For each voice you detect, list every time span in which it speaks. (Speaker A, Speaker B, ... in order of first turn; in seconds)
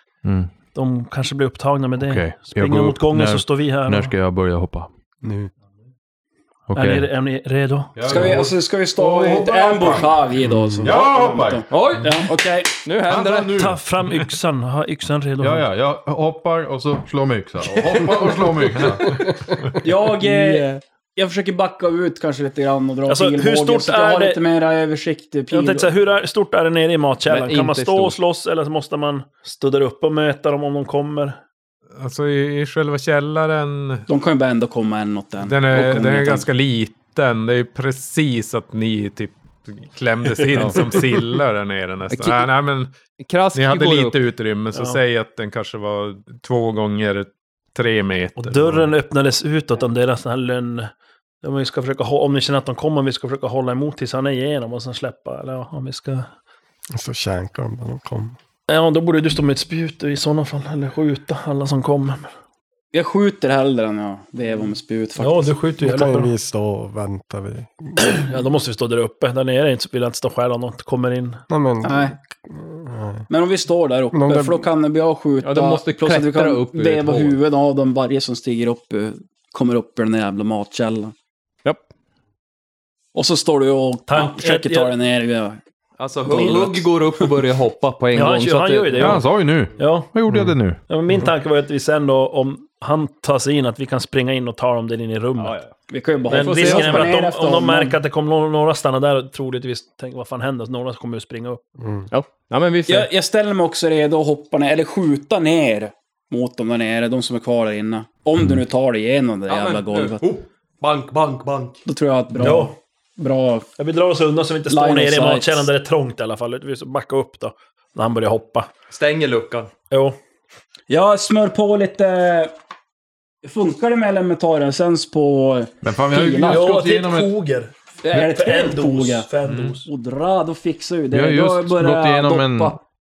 Speaker A: 0.2-0.5, 1.9-4.9, 6.7-7.1, 8.0-12.2, 13.1-13.8, 15.4-19.3, 88.9-90.8, 125.8-127.3, 131.1-132.8
Speaker B: 0.7-4.1, 6.7-8.3, 13.5-15.7, 23.1-24.4, 25.5-31.4, 44.7-45.0, 48.4-56.3, 58.7-62.3, 65.2-66.3, 68.0-71.4, 84.1-84.9, 86.3-86.7, 88.1-89.2, 89.8-90.2, 90.9-95.6, 96.3-101.6, 112.4-112.7, 113.8-118.7, 119.9-120.2, 126.4-129.9
Speaker C: 5.2-5.5, 56.9-58.4, 65.8-68.0, 71.5-73.3, 74.1-74.7, 101.8-102.1
Speaker D: 8.0-12.7, 19.8-25.9, 34.1-36.5, 62.9-65.5, 71.8-72.1, 73.3-81.1, 83.1-85.6, 86.3-86.8, 95.9-98.0, 102.9-110.3, 111.8-113.7, 114.7-115.7, 120.9-122.5, 123.4-126.7, 128.0-129.3, 129.8-132.8
Speaker E: 10.9-12.3, 12.8-13.6, 27.2-28.2, 40.5-40.8, 42.1-42.5, 43.2-44.2, 75.4-77.4, 86.0-89.2, 95.4-95.7, 96.3-97.1, 102.1-103.1, 109.5-111.8, 118.9-119.7
Speaker F: 32.0-34.0, 35.4-42.9, 43.5-48.9